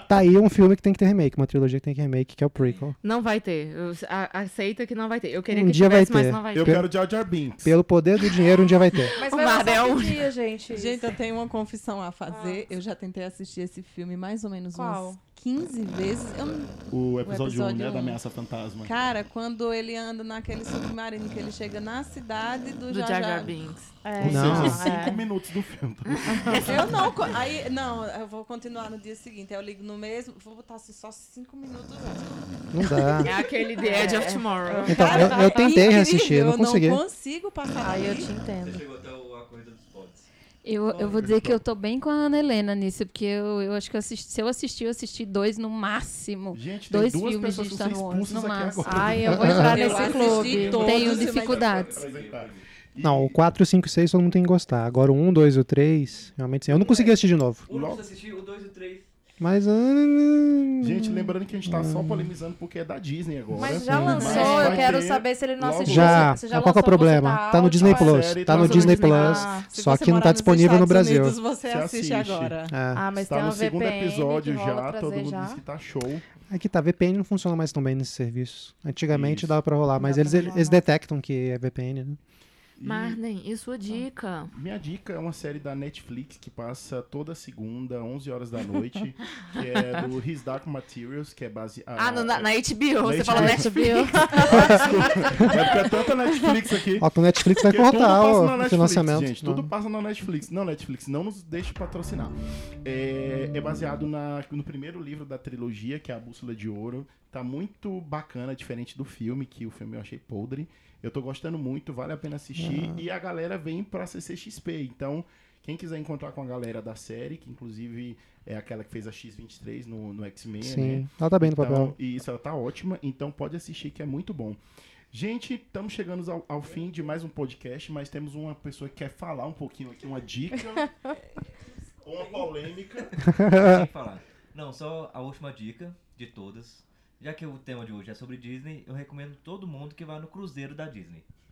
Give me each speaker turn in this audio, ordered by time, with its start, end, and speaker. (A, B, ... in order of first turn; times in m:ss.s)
0:00.1-0:03.0 A
0:03.0-0:06.8 B
0:05.5-0:06.9 A
0:06.5-0:07.8 C
0:07.6-0:09.2 A
0:08.2-0:10.3 B
0:09.2-0:11.1 D
0:10.7-0:18.2 E
0:12.3-0:12.6 D
0:14.7-0:15.2 D
0:16.9-0:18.9 C
0:18.8-0:23.5 E
0:22.9-0:24.0 B
0:24.0-0:25.2 D
0:24.2-0:27.3 C
0:24.2-0:24.9 A
0:26.1-0:26.9 B
0:26.3-0:26.9 D
0:26.6-0:33.0 E
0:32.7-0:33.3 A
0:33.1-0:35.9 D
0:33.2-0:35.0 B
0:34.9-0:38.3 E
0:34.9-0:37.0 A
0:37.8-0:38.8 D
0:38.6-0:40.3 F
0:40.6-0:49.3 G
0:40.9-0:41.6 C
0:46.5-0:53.4 C
0:48.8-0:51.1 D
0:49.6-0:51.7 E
0:50.0-0:52.6 F
0:50.7-0:52.0 G
0:53.0-0:57.7 A
0:57.7-0:59.1 F
0:57.7-0:58.1 C
0:59.4-1:02.3 A
1:00.8-1:06.4 C
1:03.6-1:09.7 D
1:03.6-1:04.8 A
1:04.2-1:04.9 E
1:05.8-1:11.4 A
1:07.7-1:09.5 C
1:09.1-1:12.8 E
1:11.6-1:12.6 C
1:12.7-1:13.1 A
1:12.9-1:15.6 D
1:13.2-1:16.2 C
1:16.5-1:22.2 A
1:19.1-1:19.6 C
1:20.0-1:20.8 D
1:22.8-1:23.2 C
1:22.8-1:24.5 B
1:24.5-1:32.5 C
1:32.0-1:35.1 B
1:33.0-1:33.7 C
1:33.2-1:35.8 D
1:34.2-2:04.6 C
1:37.0-1:39.7 A
1:52.6-1:52.9 A
2:00.6-2:02.0 A
2:05.1-2:10.9 C
2:12.0-2:13.2 C
2:13.2-2:21.2 F
2:13.3-2:13.8 A